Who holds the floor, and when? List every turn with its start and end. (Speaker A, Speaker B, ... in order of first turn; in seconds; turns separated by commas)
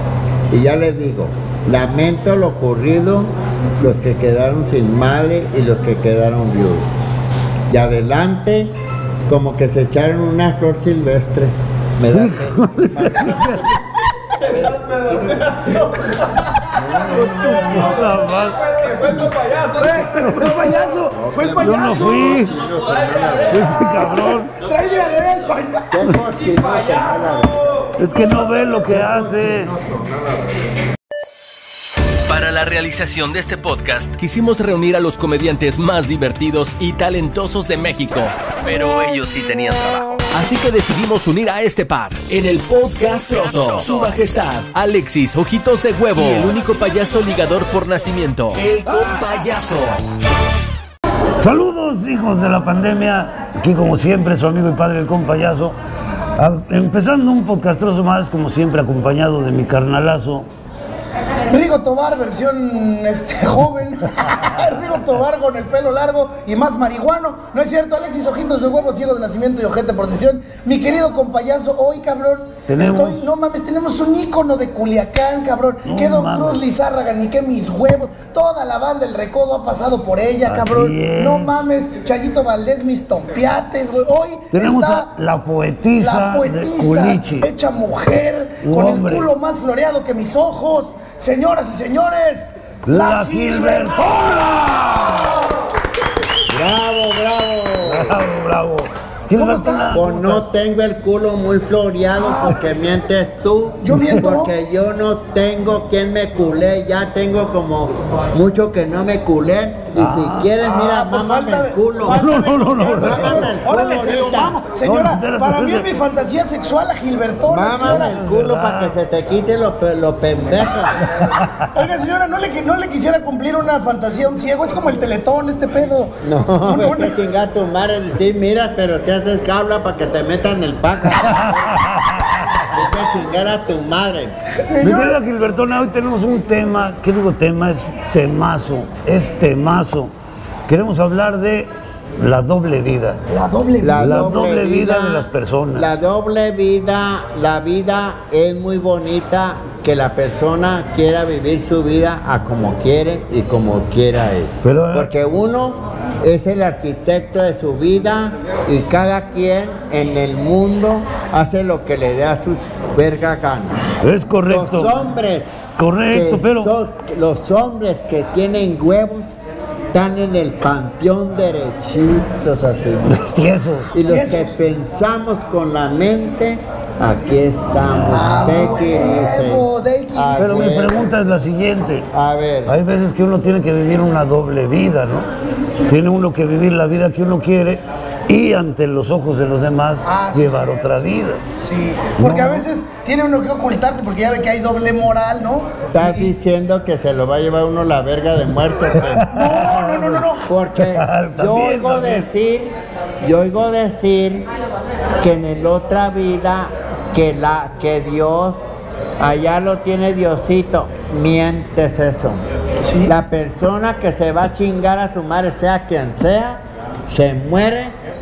Speaker A: 0.5-7.0, Speaker A: 7.7-13.7, Speaker B: 12.1-13.8, Speaker A: 14.5-15.8, Speaker C: 14.5-16.0, Speaker A: 16.7-18.2, Speaker B: 17.0-18.6, Speaker C: 18.1-20.6, Speaker D: 19.8-22.4, Speaker B: 20.0-20.7, Speaker A: 21.1-23.8, Speaker B: 21.6-22.6, Speaker C: 22.7-23.6, Speaker B: 23.5-24.5, Speaker D: 23.7-25.9, Speaker A: 25.9-27.6, Speaker C: 26.3-27.5, Speaker B: 28.0-29.7, Speaker A: 28.6-30.7, Speaker E: 32.3-50.0, Speaker B: 51.4-55.8, Speaker B: 56.4-60.5, Speaker D: 61.5-85.1, Speaker B: 72.7-73.3, Speaker B: 75.8-76.7, Speaker B: 80.5-81.6, Speaker B: 84.5-87.5, Speaker D: 86.0-94.3, Speaker B: 88.6-89.3, Speaker B: 92.9-95.4, Speaker A: 96.5-98.2, Speaker B: 97.8-100.5, Speaker D: 99.3-100.0, Speaker A: 99.9-114.6, Speaker D: 102.2-102.6, Speaker D: 103.8-104.5, Speaker B: 110.0-110.5, Speaker D: 110.6-118.2, Speaker B: 112.0-113.5, Speaker B: 114.8-116.0, Speaker A: 117.5-121.0, Speaker B: 117.8-119.0, Speaker B: 121.0-121.7, Speaker D: 121.7-127.2, Speaker A: 126.2-131.8, Speaker B: 131.2-132.6, Speaker A: 132.7-134.3, Speaker D: 134.7-135.2, Speaker B: 134.8-140.1, Speaker B: 140.7-143.2, Speaker D: 143.3-144.2, Speaker A: 143.8-164.0, Speaker B: 144.0-145.9, Speaker B: 154.6-155.1, Speaker B: 164.0-165.0, Speaker A: 164.5-165.6, Speaker B: 165.8-166.7, Speaker A: 166.1-169.4, Speaker A: 169.9-173.2, Speaker B: 173.1-173.9, Speaker A: 173.9-181.1, Speaker D: 174.0-174.6, Speaker B: 177.8-178.9, Speaker D: 178.1-180.8, Speaker B: 180.4-182.1, Speaker A: 182.1-182.8, Speaker B: 182.7-185.3, Speaker B: 185.9-191.4, Speaker D: 190.1-191.0, Speaker D: 191.6-196.3, Speaker B: 192.2-192.7, Speaker A: 195.9-199.3, Speaker B: 198.8-202.3, Speaker D: 199.3-200.4, Speaker A: 200.4-204.5, Speaker A: 205.2-208.6, Speaker A: 209.2-212.4, Speaker D: 212.8-213.1, Speaker A: 213.0-217.9